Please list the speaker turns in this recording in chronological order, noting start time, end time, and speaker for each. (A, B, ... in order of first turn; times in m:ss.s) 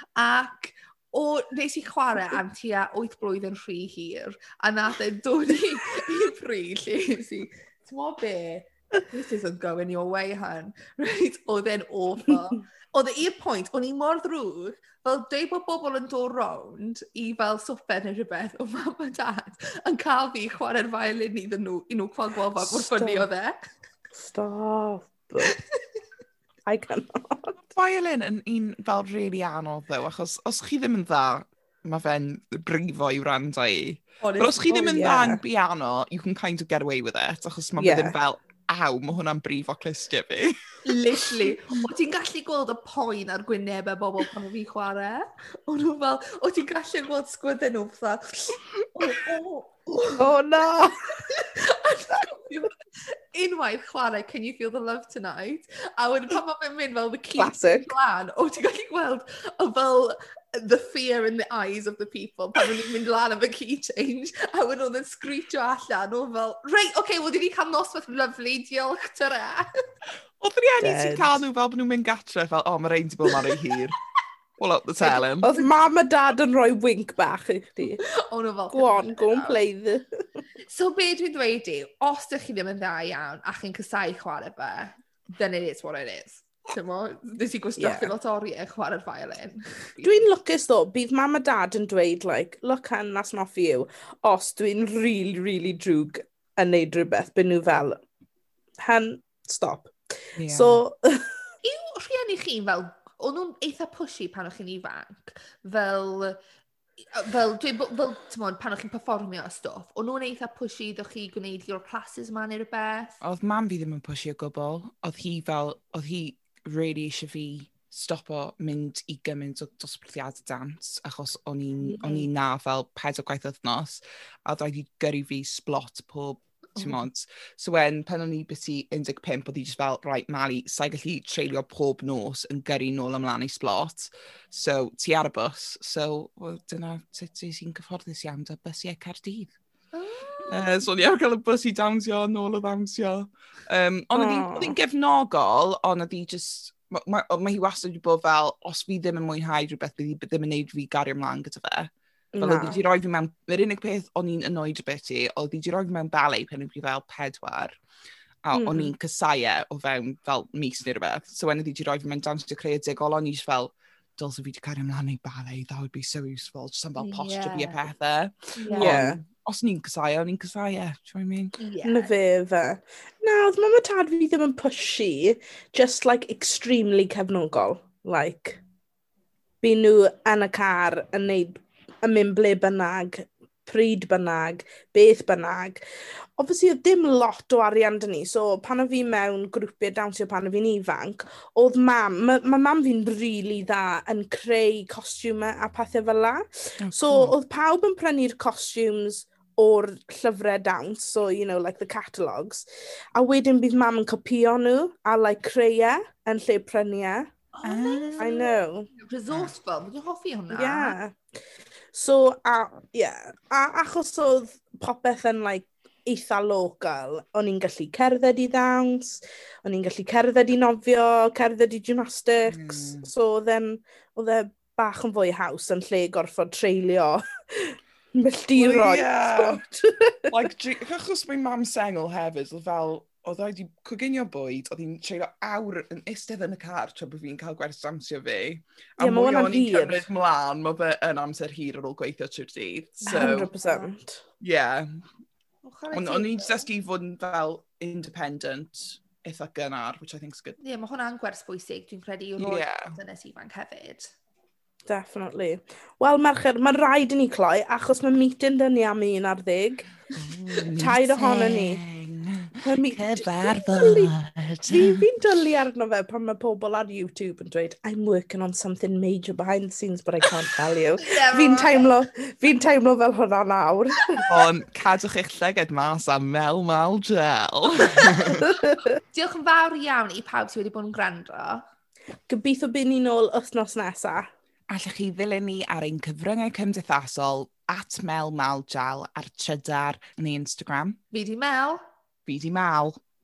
0:00.2-0:23.7 A
0:22.6-0:23.3 B
0:24.2-0:25.6 B
0:26.7-0:27.5 B
0:27.7-0:40.6 C
0:34.2-0:35.0 A
0:34.7-0:35.4 B
0:37.8-0:38.2 B
0:40.8-0:50.3 A
0:50.2-0:51.3 B
0:51.2-1:09.8 A
0:57.4-0:57.9 B
1:10.4-1:14.0 C
1:10.8-1:11.4 B
1:14.6-1:15.5 C
1:15.0-1:15.7 A
1:15.4-1:18.0 B
1:18.0-1:19.6 A
1:18.7-1:20.4 B
1:20.7-1:30.3 A
1:27.8-1:28.1 B
1:30.0-1:38.0 B
1:38.8-1:40.0 B
1:40.4-1:40.8 C
1:40.5-1:41.4 B
1:41.6-1:46.4 A
1:47.1-1:53.2 A
1:53.2-2:19.5 C
2:01.9-2:02.3 B
2:06.8-2:07.0 A
2:19.9-2:20.6 A
2:20.5-2:37.8 C
2:24.2-2:24.8 B
2:32.3-2:32.8 B
2:38.4-2:51.6 C
2:38.5-2:38.9 B
2:47.0-2:47.8 A
2:48.6-2:49.0 A
2:48.7-2:49.2 B
2:51.6-2:52.1 A
2:51.8-2:58.6 B
2:59.6-3:05.8 B
3:06.4-3:27.3 B
3:16.8-3:17.4 C
3:27.5-3:31.0 A
3:27.6-3:28.3 C
3:28.2-3:28.9 B
3:30.5-3:31.2 B
3:31.9-3:50.3 B
3:42.5-3:43.1 C
3:48.6-3:49.6 C
3:50.3-4:03.5 C
3:59.0-4:00.0 B
4:03.0-4:03.9 A
4:03.1-4:04.2 B
4:04.4-4:04.9 C
4:05.6-4:06.7 A
4:05.9-4:10.6 C
4:10.6-4:14.1 A
4:12.4-4:13.0 C
4:14.9-4:19.9 B
4:20.1-4:25.0 C
4:20.8-4:21.8 B
4:22.6-4:24.1 B
4:24.6-4:34.2 B
4:31.0-4:31.9 A
4:34.3-4:38.5 C
4:39.1-4:41.6 A
4:42.3-4:44.3 B
4:44.7-4:51.0 C
4:51.1-4:51.8 A
4:52.3-4:53.0 C